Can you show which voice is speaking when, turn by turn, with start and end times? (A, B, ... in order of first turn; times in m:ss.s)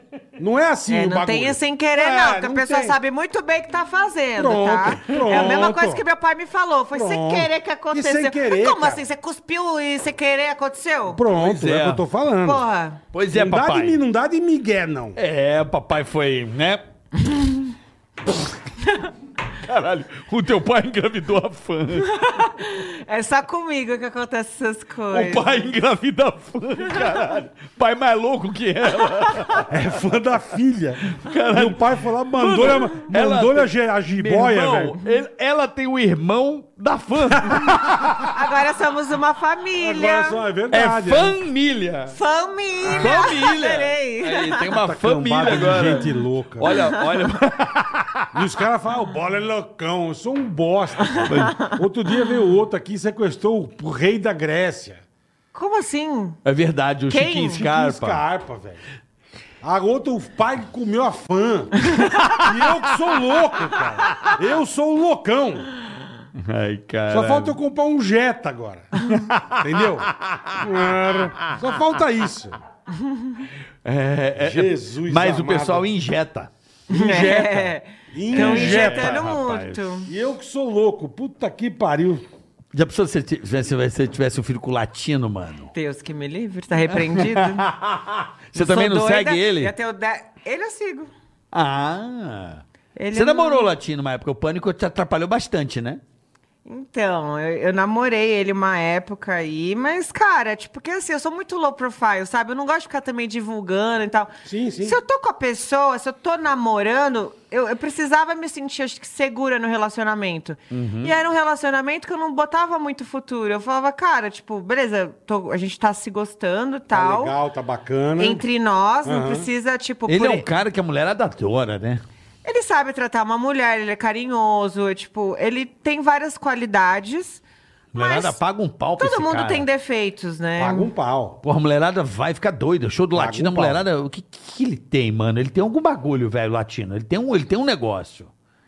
0:00.4-0:03.0 A
0:00.9-0:11.2 B
0:04.4-0:06.0 A
0:05.1-0:05.7 C
0:06.9-0:09.0 A
0:11.1-0:12.6 A
0:11.3-0:12.0 C
0:12.4-0:13.0 B
0:13.1-0:14.0 C
0:13.3-0:15.2 A
0:15.2-0:16.8 C
0:19.6-0:22.2 C
0:22.0-0:25.5 B
0:25.1-0:29.7 C
0:29.7-0:35.0 A
0:31.1-0:38.3 C
0:38.3-0:40.4 B
0:39.8-0:41.4 A
0:40.7-0:42.2 C
0:42.1-0:44.7 B
0:42.9-0:48.3 C
0:44.7-0:46.8 A
0:46.6-0:47.0 B
0:48.3-0:55.0 A
0:51.1-0:51.8 B
0:51.2-0:51.6 C
0:55.5-0:56.4 B
0:56.4-0:58.2 C
0:57.1-0:57.6 B
0:57.6-0:58.8 A
0:59.6-1:05.7 A
1:01.9-1:02.2 B
1:02.0-1:03.0 C
1:04.0-1:04.3 B
1:06.3-1:07.6 C
1:07.1-1:08.9 A
1:09.0-1:10.6 C
1:09.5-1:12.6 A
1:13.0-1:13.4 B
1:13.8-1:16.5 C
1:14.4-1:15.9 A
1:16.9-1:20.1 B
1:16.9-1:19.2 A
1:18.3-1:20.0 C
1:20.1-1:22.2 A
1:22.7-1:25.7 C
1:25.7-1:27.6 B
1:26.9-1:29.7 C
1:28.5-1:31.1 B
1:31.5-1:36.0 C
1:33.0-1:33.7 B
1:36.6-1:57.3 B
1:44.4-1:45.0 A
1:50.7-1:51.1 C
1:56.9-1:58.4 A
1:58.2-2:00.5 B
1:59.0-1:59.5 A
2:00.1-2:02.0 C
2:02.4-2:07.4 B
2:07.9-2:09.6 C
2:07.9-2:08.4 B
2:09.0-2:10.9 B
2:10.6-2:11.4 A
2:11.4-2:18.3 C
2:13.1-2:13.8 A